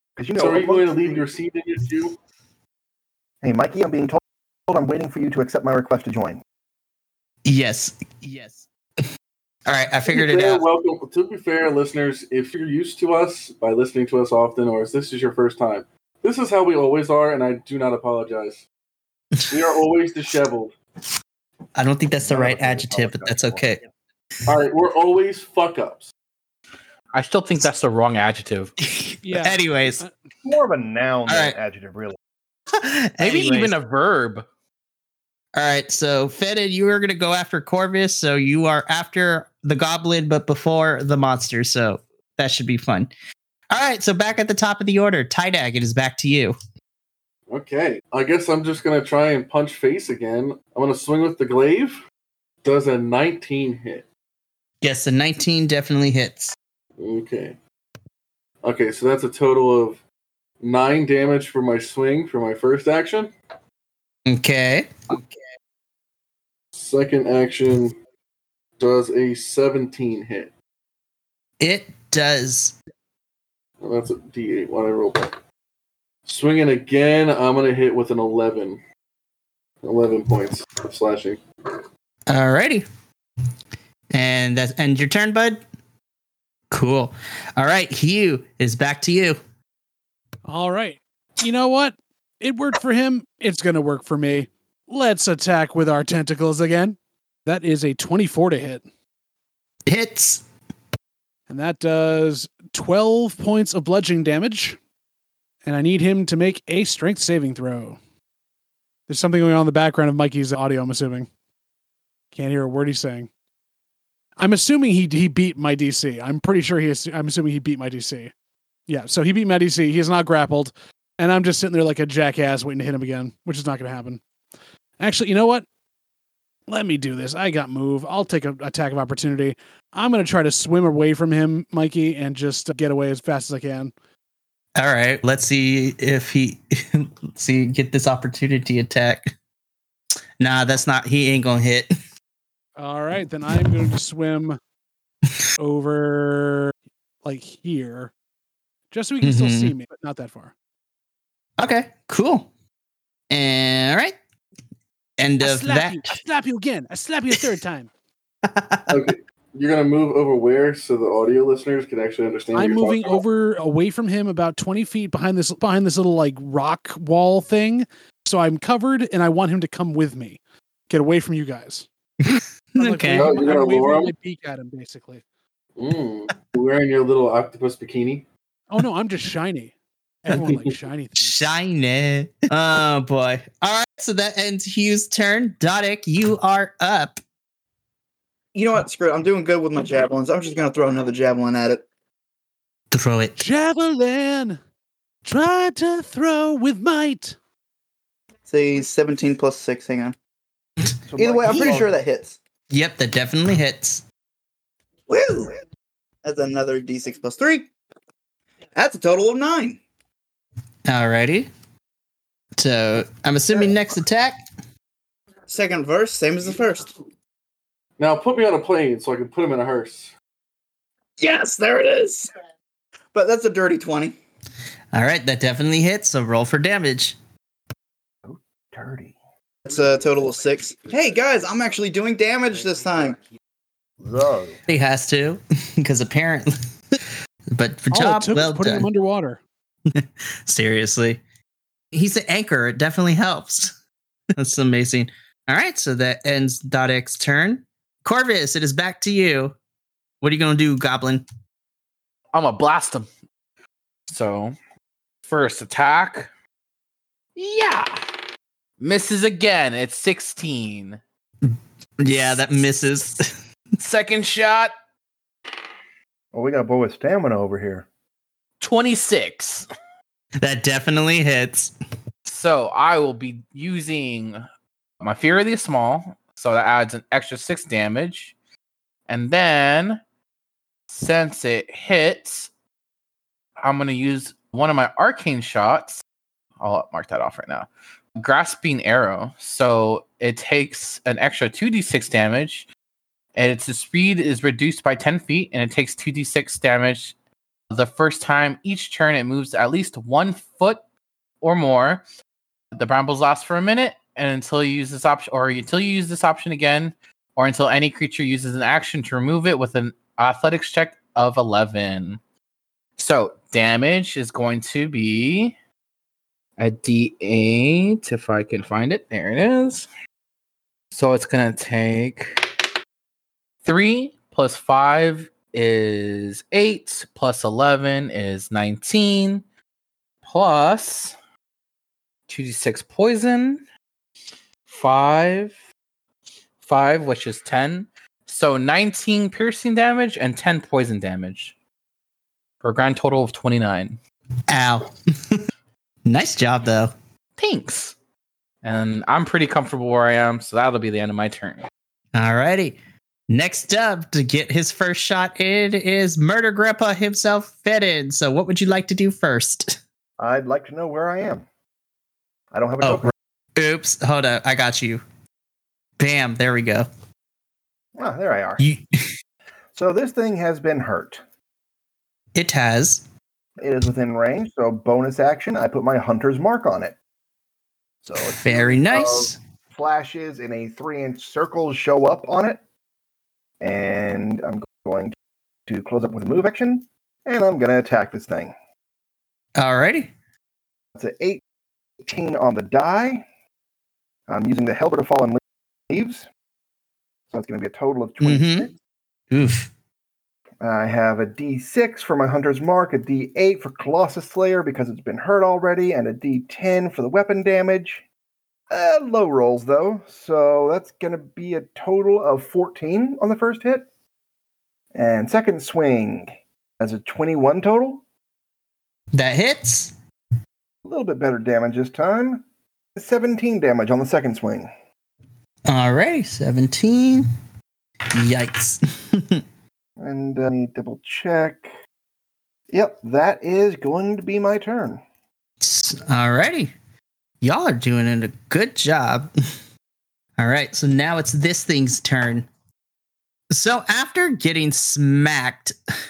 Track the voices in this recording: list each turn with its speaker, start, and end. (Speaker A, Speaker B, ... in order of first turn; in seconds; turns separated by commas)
Speaker A: 0.2-1.3, Speaker B: 0.4-2.2, Speaker A: 3.4-6.4, Speaker C: 7.5-8.6, Speaker C: 9.7-10.6, Speaker B: 10.1-18.7, Speaker B: 19.5-20.7, Speaker C: 21.8-23.8, Speaker A: 22.3-23.8, Speaker B: 24.5-26.1, Speaker D: 27.1-28.7, Speaker C: 28.9-30.0, Speaker E: 29.2-30.1, Speaker A: 30.4-32.2, Speaker C: 31.3-31.6, Speaker C: 32.7-33.7, Speaker D: 33.2-34.5, Speaker C: 35.5-43.1, Speaker C: 43.7-46.6, Speaker B: 47.5-52.0, Speaker B: 52.6-54.1, Speaker C: 54.8-56.6, Speaker B: 57.0-57.6, Speaker B: 58.6-60.0, Speaker B: 60.6-63.3, Speaker C: 64.3-65.2, Speaker B: 66.7-68.0, Speaker B: 68.8-70.5, Speaker C: 71.6-72.8, Speaker B: 73.8-75.4, Speaker B: 76.3-78.8, Speaker B: 79.8-81.8, Speaker C: 82.3-82.8, Speaker C: 84.1-85.6, Speaker C: 86.7-89.4, Speaker E: 90.5-98.8, Speaker C: 99.9-100.4, Speaker E: 101.5-104.8, Speaker E: 105.7-108.0, Speaker E: 109.1-111.3, Speaker E: 112.3-113.3, Speaker E: 114.4-118.3, Speaker E: 118.9-124.2, Speaker E: 125.0-125.7, Speaker E: 126.7-133.9, Speaker C: 134.8-139.3, Speaker C: 140.4-141.9, Speaker E: 142.8-144.6, Speaker E: 145.6-146.7, Speaker E: 147.2-148.1, Speaker E: 148.9-150.5, Speaker C: 149.2-149.7, Speaker C: 151.6-152.5, Speaker C: 153.3-154.2, Speaker C: 155.2-156.2, Speaker E: 155.4-157.9, Speaker C: 158.4-159.0, Speaker B: 158.9-163.2, Speaker E: 162.5-171.9, Speaker C: 172.3-173.4, Speaker E: 172.8-175.2, Speaker B: 173.2-174.1, Speaker B: 175.8-178.3, Speaker E: 178.7-179.7, Speaker E: 180.2-181.3, Speaker C: 181.2-187.2, Speaker F: 188.5-191.8, Speaker C: 192.9-193.4, Speaker E: 193.4-194.6, Speaker E: 195.2-197.4, Speaker F: 198.5-200.2, Speaker A: 201.1-201.9, Speaker F: 201.2-202.4, Speaker C: 202.7-204.0, Speaker F: 205.1-205.6, Speaker F: 206.2-207.7, Speaker F: 208.8-209.8, Speaker C: 210.9-211.5, Speaker C: 212.6-214.4, Speaker F: 215.5-216.9, Speaker B: 218.0-220.1, Speaker F: 221.2-222.3, Speaker F: 223.1-224.2, Speaker C: 224.9-227.2, Speaker A: 228.2-229.2, Speaker F: 229.7-233.2, Speaker A: 234.0-234.6, Speaker C: 234.7-236.6, Speaker C: 237.5-238.9, Speaker E: 237.9-239.4, Speaker C: 239.9-241.2, Speaker C: 241.9-243.8, Speaker C: 244.4-249.6, Speaker C: 250.2-251.2, Speaker D: 252.3-253.1, Speaker D: 254.1-254.6, Speaker D: 255.2-256.3, Speaker D: 257.4-258.1, Speaker D: 258.8-261.0, Speaker C: 261.4-263.4, Speaker D: 263.8-264.7, Speaker A: 266.3-267.9, Speaker D: 268.6-269.7, Speaker C: 270.4-271.7, Speaker D: 272.3-274.4, Speaker D: 275.0-278.3, Speaker D: 279.1-280.0, Speaker D: 280.9-282.5, Speaker D: 283.6-286.0, Speaker D: 286.6-292.7, Speaker D: 293.4-297.1, Speaker D: 297.7-300.8, Speaker D: 301.4-302.0, Speaker D: 302.7-312.2, Speaker D: 313.0-315.6, Speaker D: 316.6-319.9, Speaker D: 320.9-322.5, Speaker D: 323.6-329.4, Speaker D: 330.2-331.1, Speaker D: 332.3-333.6, Speaker D: 334.7-335.5, Speaker D: 336.6-341.5, Speaker D: 342.6-344.0, Speaker C: 344.5-345.4, Speaker C: 346.1-346.9, Speaker D: 347.4-348.0, Speaker D: 348.6-351.7, Speaker C: 352.1-352.8, Speaker C: 353.3-359.8, Speaker A: 360.2-361.5, Speaker A: 362.5-363.1, Speaker C: 362.8-365.0, Speaker C: 366.0-366.9, Speaker A: 368.0-368.6, Speaker C: 368.6-369.1, Speaker A: 369.7-371.2, Speaker C: 372.4-373.0, Speaker A: 373.6-377.0, Speaker A: 378.0-382.6, Speaker C: 378.3-379.4, Speaker A: 383.6-385.2, Speaker A: 385.7-388.5, Speaker C: 389.6-390.1, Speaker A: 390.9-391.4, Speaker A: 392.0-393.2, Speaker A: 394.3-396.3, Speaker A: 397.3-398.7, Speaker C: 398.2-398.7, Speaker C: 399.3-399.7, Speaker A: 400.6-408.0, Speaker A: 408.7-413.9, Speaker A: 414.9-418.0, Speaker C: 419.1-419.9, Speaker A: 420.9-422.4, Speaker A: 423.0-424.7, Speaker C: 425.7-427.3, Speaker C: 428.1-429.4, Speaker A: 430.0-431.7, Speaker A: 432.7-435.0, Speaker C: 435.6-436.7, Speaker C: 437.4-439.3, Speaker C: 440.4-442.5, Speaker C: 443.5-445.8